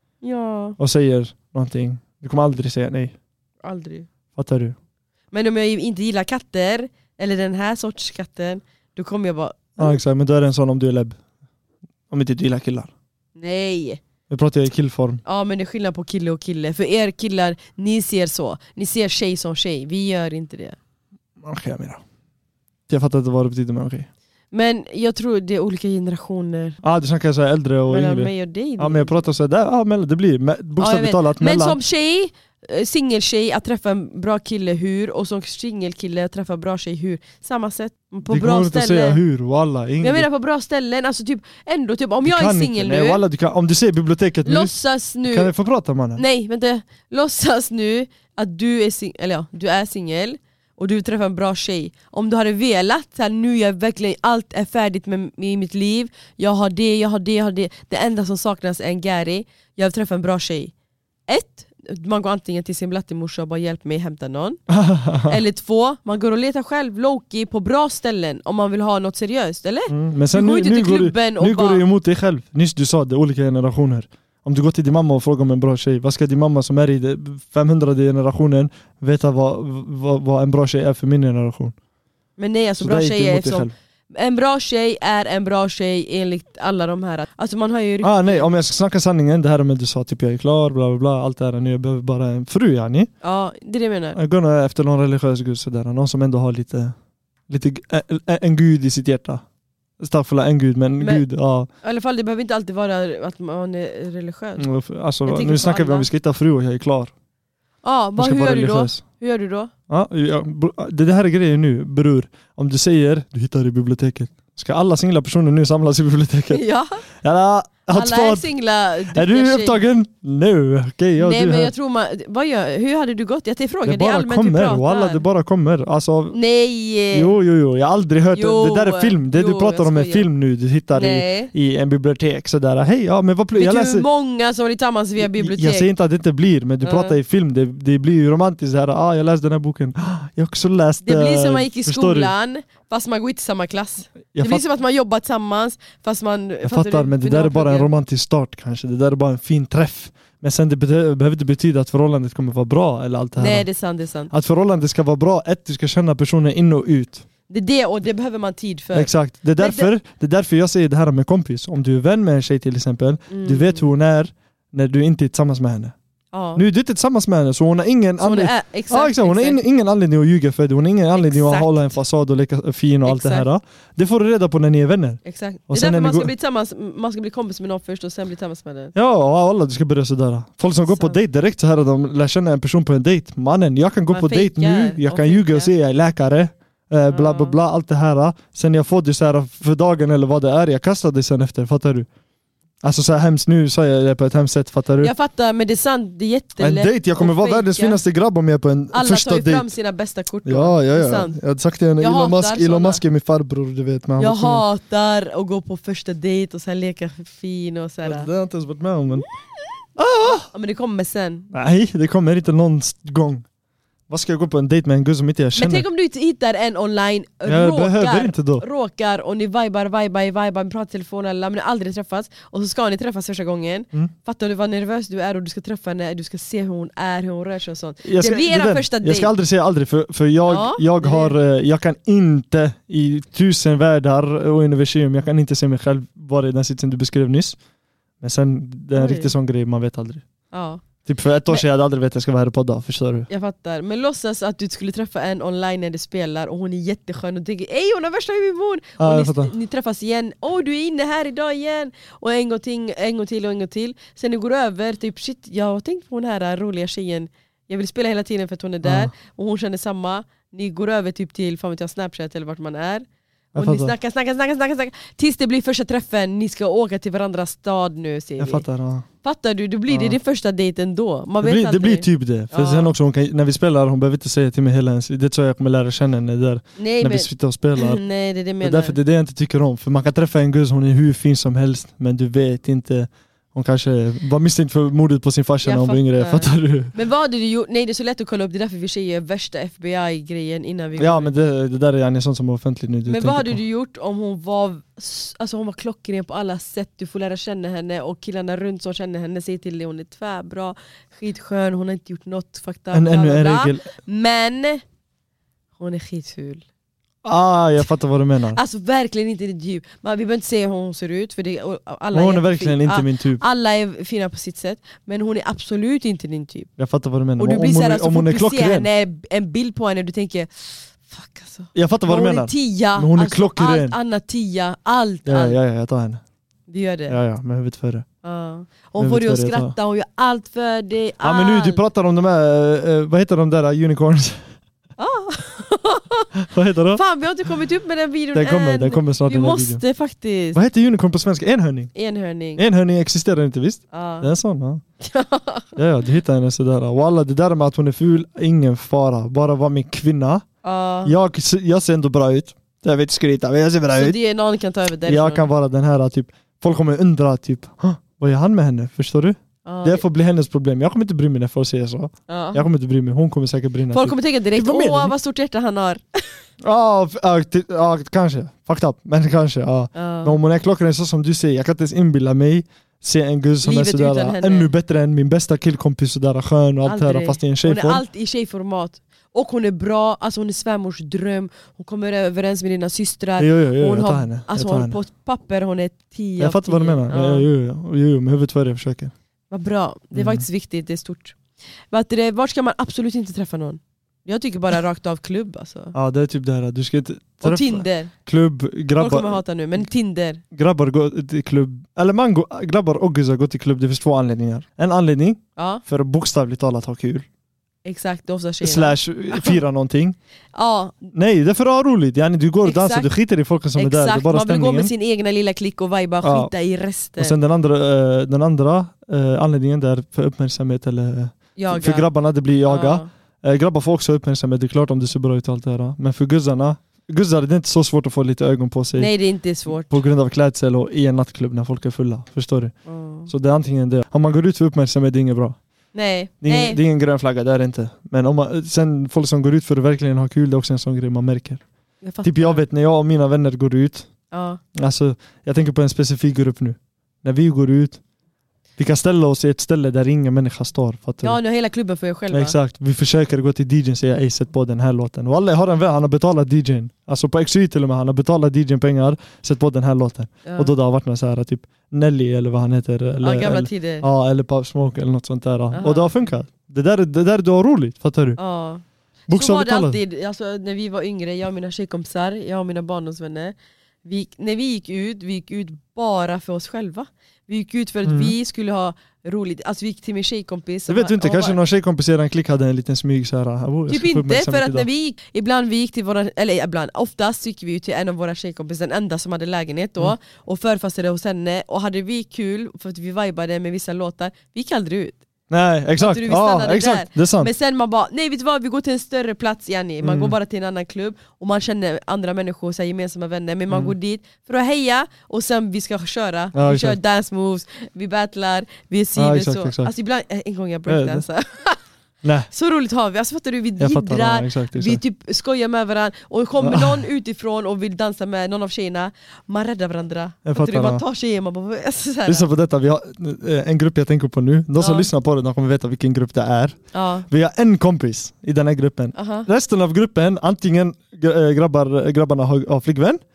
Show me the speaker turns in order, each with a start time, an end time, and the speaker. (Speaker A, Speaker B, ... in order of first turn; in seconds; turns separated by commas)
Speaker A: 0.2-0.8, Speaker B: 0.8-3.1, Speaker A: 3.6-4.1, Speaker B: 4.4-4.8, Speaker A: 5.3-10.0, Speaker B: 9.8-11.2, Speaker B: 12.1-12.9, Speaker A: 13.4-14.0, Speaker B: 14.3-15.2, Speaker A: 15.2-20.8, Speaker B: 21.4-22.0, Speaker B: 22.9-24.1, Speaker A: 24.5-26.8, Speaker B: 26.8-31.8, Speaker A: 27.9-29.1, Speaker A: 30.8-39.2, Speaker B: 38.3-40.3, Speaker A: 40.0-43.2, Speaker B: 42.2-44.7, Speaker A: 44.4-45.5, Speaker B: 45.2-46.2, Speaker A: 46.2-60.7, Speaker A: 61.3-64.6, Speaker B: 64.7-65.4, Speaker A: 65.2-71.8, Speaker B: 69.9-81.8, Speaker A: 82.4-88.5, Speaker B: 82.8-83.7, Speaker B: 88.0-93.1, Speaker A: 93.2-94.2, Speaker B: 94.2-97.0, Speaker B: 97.5-99.4, Speaker B: 100.0-101.7, Speaker A: 101.8-104.7, Speaker B: 104.6-107.1, Speaker A: 105.2-106.1, Speaker A: 107.8-109.7, Speaker B: 108.2-109.0, Speaker B: 109.9-116.6, Speaker A: 116.5-117.0, Speaker B: 117.2-118.5, Speaker A: 117.9-119.8, Speaker B: 119.1-121.7, Speaker A: 121.2-125.2, Speaker B: 123.8-126.4, Speaker A: 126.3-127.3, Speaker B: 127.1-134.1, Speaker A: 128.3-130.3, Speaker A: 130.9-131.5, Speaker A: 133.5-135.9, Speaker B: 135.2-142.3, Speaker A: 136.8-137.2, Speaker A: 141.0-147.9, Speaker B: 144.3-144.6, Speaker B: 146.6-153.7, Speaker A: 153.4-154.3, Speaker B: 154.3-157.2, Speaker A: 157.5-159.9, Speaker B: 158.9-165.9, Speaker A: 163.3-163.9, Speaker A: 166.3-166.6, Speaker B: 166.6-176.3, Speaker A: 168.2-169.6, Speaker A: 171.2-172.0, Speaker A: 173.1-173.5, Speaker A: 175.2-178.9, Speaker B: 178.9-192.1, Speaker A: 180.9-181.2, Speaker A: 184.1-185.7, Speaker A: 187.1-187.6, Speaker B: 192.8-195.1, Speaker A: 195.0-198.0, Speaker B: 196.6-199.7, Speaker A: 198.9-201.4, Speaker B: 200.4-204.6, Speaker A: 202.0-203.0, Speaker A: 204.2-208.3, Speaker B: 208.0-209.2, Speaker B: 210.0-210.5, Speaker A: 210.2-211.5, Speaker B: 211.5-213.4, Speaker B: 214.1-215.8, Speaker A: 215.6-229.3, Speaker B: 217.5-218.7, Speaker B: 228.0-237.6, Speaker A: 230.5-231.3, Speaker B: 238.2-240.2, Speaker A: 238.9-239.3, Speaker A: 240.5-240.8, Speaker B: 241.1-243.3, Speaker A: 243.3-268.6, Speaker B: 249.0-249.5, Speaker B: 258.8-259.1, Speaker B: 263.6-263.9, Speaker B: 268.4-269.1, Speaker A: 269.2-272.9, Speaker B: 269.9-270.2, Speaker B: 271.4-278.0, Speaker A: 276.8-279.0, Speaker B: 278.6-286.9, Speaker A: 285.6-291.3, Speaker B: 291.0-293.6, Speaker A: 293.1-304.8, Speaker B: 302.9-303.9, Speaker A: 305.8-306.6, Speaker B: 307.2-308.6, Speaker A: 308.5-316.7, Speaker B: 312.1-313.4, Speaker B: 316.8-318.9, Speaker A: 317.4-325.6, Speaker B: 321.7-324.0, Speaker B: 325.3-326.2, Speaker A: 326.7-327.2, Speaker B: 327.1-328.1, Speaker A: 328.2-331.8, Speaker B: 329.0-329.8, Speaker B: 331.2-334.5, Speaker A: 335.0-336.4, Speaker B: 336.5-337.0, Speaker A: 336.9-340.6, Speaker B: 338.3-339.8, Speaker B: 340.5-341.9, Speaker A: 341.9-342.6, Speaker B: 342.6-344.8, Speaker A: 343.9-344.3, Speaker A: 345.0-345.8, Speaker B: 345.8-350.4, Speaker A: 350.6-351.1, Speaker B: 351.1-354.2, Speaker A: 353.9-355.5, Speaker B: 355.1-365.1, Speaker A: 359.6-360.0, Speaker A: 362.3-362.7, Speaker A: 363.9-366.3, Speaker B: 366.6-378.0, Speaker A: 369.9-370.4, Speaker A: 373.6-374.7, Speaker A: 376.9-387.5, Speaker B: 383.4-385.0, Speaker B: 386.4-389.1, Speaker A: 389.5-391.4, Speaker B: 390.1-390.4, Speaker A: 391.9-395.9, Speaker B: 395.9-399.4, Speaker A: 397.4-398.1, Speaker A: 399.0-400.4, Speaker B: 400.5-407.3, Speaker A: 405.6-405.8, Speaker A: 407.9-409.6, Speaker B: 408.6-410.2, Speaker A: 410.6-410.9, Speaker B: 411.1-414.9, Speaker A: 412.6-413.1, Speaker A: 413.8-417.4, Speaker B: 416.2-416.5, Speaker B: 417.2-429.1, Speaker A: 421.6-422.1, Speaker A: 422.7-423.1, Speaker A: 429.0-430.0, Speaker B: 429.7-432.7, Speaker A: 432.9-433.3, Speaker B: 433.3-435.6, Speaker A: 435.9-436.8, Speaker B: 436.4-441.6, Speaker A: 442.0-442.6, Speaker B: 442.2-444.1, Speaker A: 444.3-444.6, Speaker B: 444.8-448.0, Speaker B: 448.8-451.4, Speaker A: 451.2-452.6, Speaker B: 452.3-468.4, Speaker A: 460.4-460.7, Speaker A: 463.2-464.1, Speaker A: 465.7-466.3, Speaker A: 468.4-481.6, Speaker B: 469.3-470.0, Speaker B: 478.1-478.4, Speaker B: 480.9-484.9, Speaker A: 483.9-495.2, Speaker B: 495.5-497.5, Speaker A: 496.0-511.8, Speaker B: 500.0-500.4, Speaker B: 506.5-507.0, Speaker B: 509.2-509.9, Speaker B: 510.9-511.2, Speaker B: 512.2-512.5, Speaker A: 512.5-522.5, Speaker B: 513.8-515.0, Speaker B: 516.6-517.0, Speaker B: 520.5-521.0, Speaker B: 522.3-533.2, Speaker A: 524.8-525.1, Speaker A: 526.9-527.3, Speaker A: 529.1-529.5